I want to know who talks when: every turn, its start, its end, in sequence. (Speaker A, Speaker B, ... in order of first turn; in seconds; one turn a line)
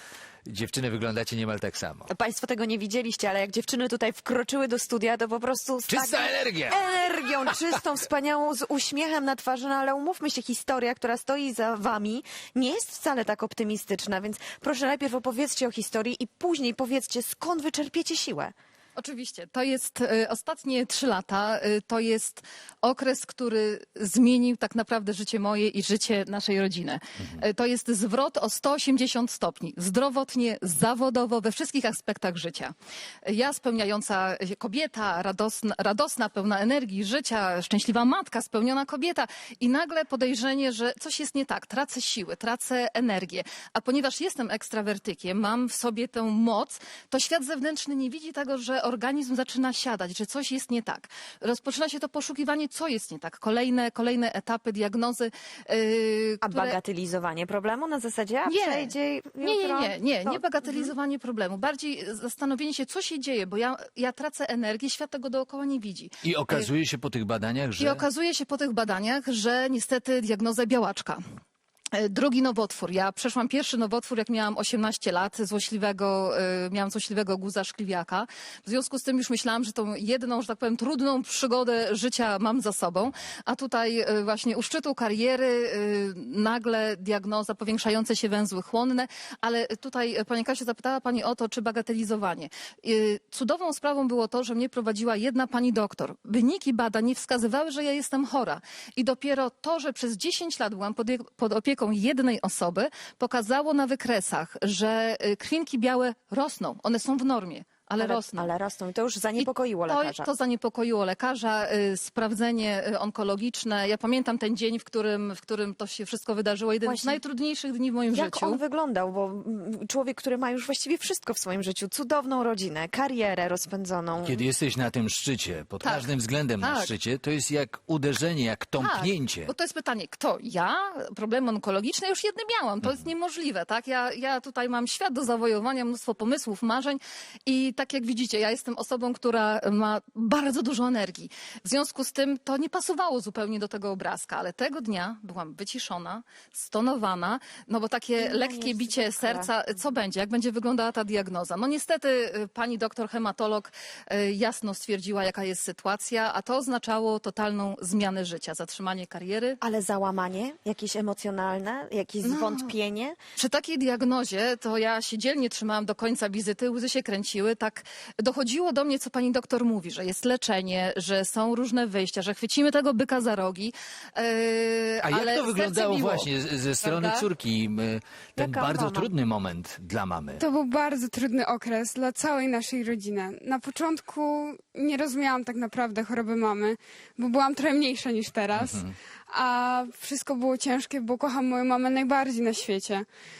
Speaker A: 0.5-2.1
Speaker B: 2.1-18.5
Speaker A: 5.9-6.8
Speaker C: 18.9-32.7
Speaker C: 33.2-56.8
Speaker B: 56.4-60.9
Speaker C: 58.5-66.7
Speaker A: 66.2-68.0
Speaker C: 67.8-71.2
Speaker C: 71.9-108.5
Speaker B: 108.0-110.3
Speaker C: 109.4-118.6
Speaker B: 116.8-117.2
Speaker B: 118.1-124.4
Speaker A: 124.2-129.5
Speaker C: 125.8-126.9
Speaker C: 128.8-159.6
Speaker B: 148.2-149.5
Speaker B: 159.6-163.2
Speaker C: 162.2-162.7
Speaker C: 163.4-177.3
Speaker A: 175.0-180.4
Speaker B: 178.3-179.1
Speaker D: 180.4-193.1
Speaker A: 188.6-188.9